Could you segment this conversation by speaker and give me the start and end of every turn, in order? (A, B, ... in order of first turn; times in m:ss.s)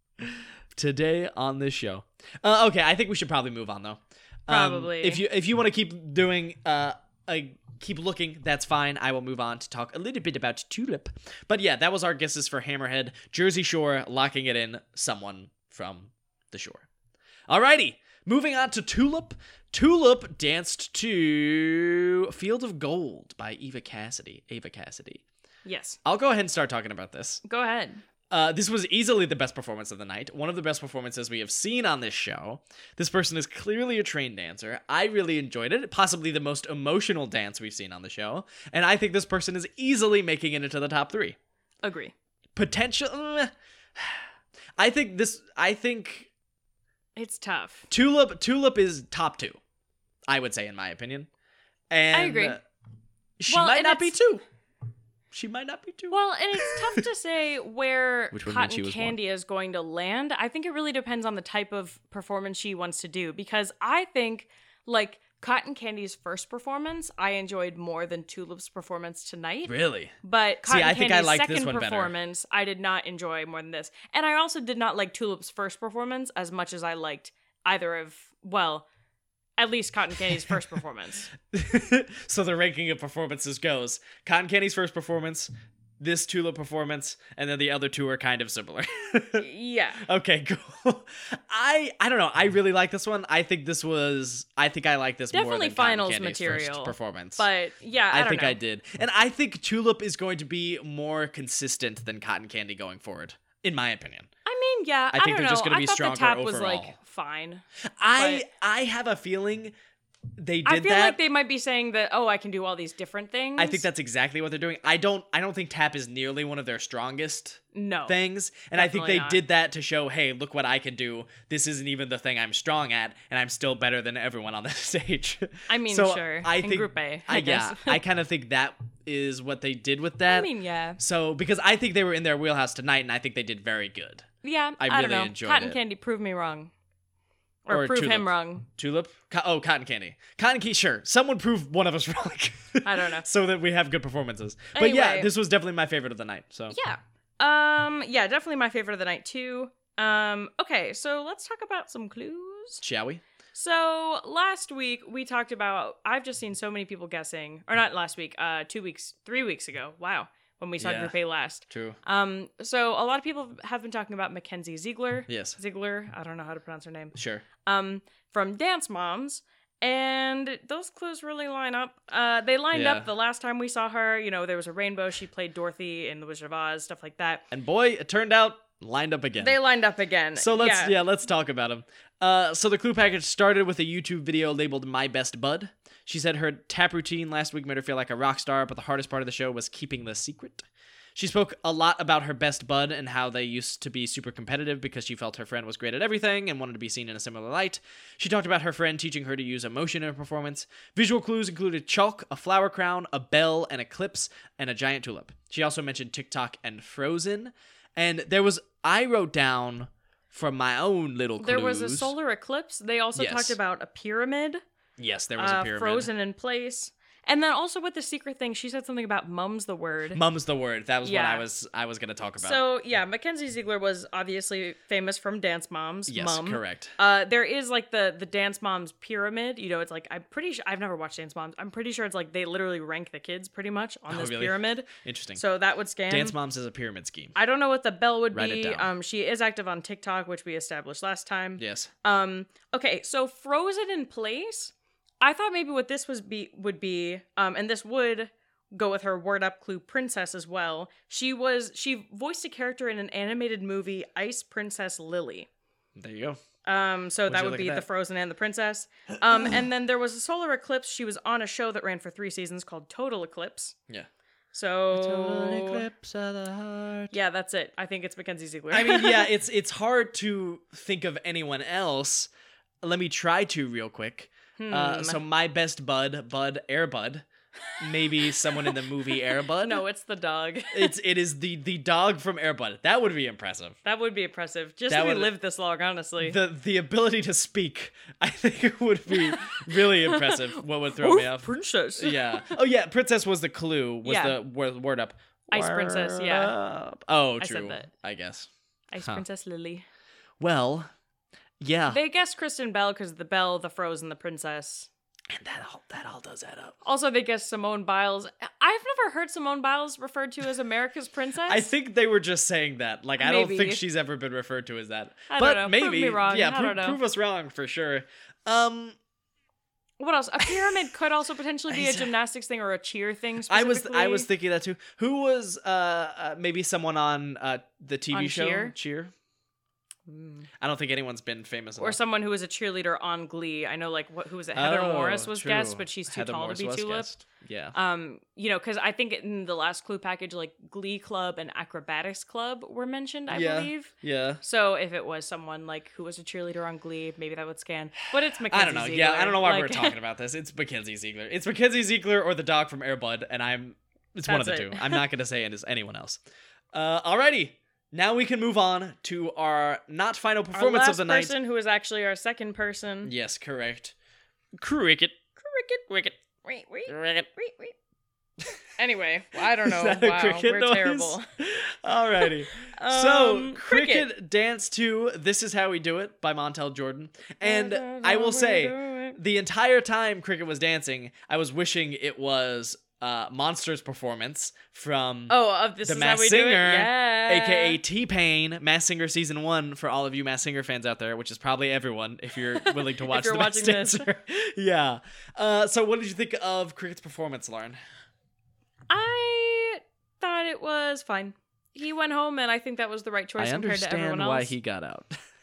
0:00.2-0:16.9 A
0:04.5-0:05.2 B
0:17.5-0:25.2 A
0:25.6-0:26.0 B
0:26.0-0:27.4 A
0:27.4-0:28.0 B
0:28.3-0:41.4 A
0:41.8-0:42.1 B
0:42.6-0:44.2 A
0:44.8-0:46.3 A
0:47.2-0:47.9 B
0:47.9-0:49.6 A
0:50.3-0:51.3 A
0:51.9-0:52.6 A
0:52.1-0:52.6 B
0:53.4-0:54.4 A
0:53.5-0:54.2 B
0:55.3-0:57.0 A
0:56.1-1:18.8 B
0:58.3-0:59.2 A
1:09.7-1:12.1 A
1:19.6-1:21.3 B
1:21.5-1:29.5 A
1:29.4-1:30.0 B
1:30.0-1:37.4 A
1:35.3-1:38.6 B
1:38.1-1:44.3 A
1:44.4-1:47.6 B
1:45.1-1:46.9 A
1:48.0-1:49.7 A
1:48.2-1:48.4 B
1:50.4-1:51.2 A
1:50.6-1:53.8 B
1:53.6-2:14.3 A
1:57.7-1:58.2 B
1:58.7-1:59.4 B
2:05.7-2:08.0 B
2:10.3-2:11.0 B
2:14.4-2:16.7 B
2:14.8-2:15.8 A
2:17.6-2:18.7 B
2:17.7-2:26.8 A
2:22.8-2:23.2 B
2:24.7-2:25.3 B
2:26.7-2:32.8 B
2:32.8-2:33.2 A
2:33.5-2:57.4 B
2:40.8-2:41.1 A
2:41.7-2:42.0 A
2:45.3-2:45.6 A
2:47.1-2:47.4 A
2:52.7-2:53.1 A
2:57.5-2:59.6 A
2:59.4-3:01.0 B
3:00.4-3:32.1 A
3:31.4-3:34.6 B
3:33.1-3:33.6 A
3:35.0-3:36.1 A
3:35.4-3:40.2 B
3:40.1-3:42.6 A
3:41.0-3:41.4 B
3:42.4-3:56.4 B
3:46.1-3:46.9 A
3:54.1-3:55.4 A
3:56.1-3:57.3 A
3:57.4-4:15.5 B
3:58.3-3:58.9 A
4:01.6-4:01.9 A
4:16.0-4:16.4 A
4:16.6-4:23.7 B
4:17.3-4:17.8 A
4:24.5-4:25.8 B
4:24.9-4:27.1 A
4:27.1-4:29.3 B
4:28.7-4:32.3 A
4:32.8-4:37.2 A
4:34.6-4:35.2 B
4:37.8-4:39.8 A
4:37.9-4:38.8 B
4:39.6-4:40.9 B
4:40.7-4:43.8 A
4:43.8-4:46.4 B
4:44.9-4:45.3 A
4:46.2-4:59.2 A
4:49.1-4:52.5 B
4:54.0-4:54.4 B
4:55.5-4:56.5 B
4:57.4-4:57.9 B
4:58.9-4:59.8 B
5:00.4-5:00.9 A
5:01.6-5:02.0 A
5:01.9-5:04.9 B
5:05.3-5:06.8 A
5:06.8-5:11.7 B
5:11.4-5:19.0 A
5:13.2-5:13.8 B
5:15.3-5:17.0 B
5:20.0-5:24.3 B
5:21.7-5:22.1 A
5:23.5-5:29.1 A
5:28.1-5:28.7 B
5:30.1-5:30.5 B
5:30.6-5:32.0 A
5:31.8-5:37.1 B
5:34.5-5:37.7 A
5:37.7-5:50.0 B
5:43.3-5:44.4 A
5:48.5-5:56.2 A
5:54.3-5:55.0 B
5:56.7-6:01.3 A
6:00.5-6:03.1 B
6:03.0-6:03.9 A
6:04.6-6:05.2 A
6:05.4-6:07.7 B
6:08.8-6:11.2 B
6:09.4-6:37.8 A
6:12.2-6:14.1 B
6:17.4-6:19.2 B
6:25.3-6:27.8 B
6:32.5-6:34.0 B
6:38.9-6:44.5 B
6:43.4-6:45.1 A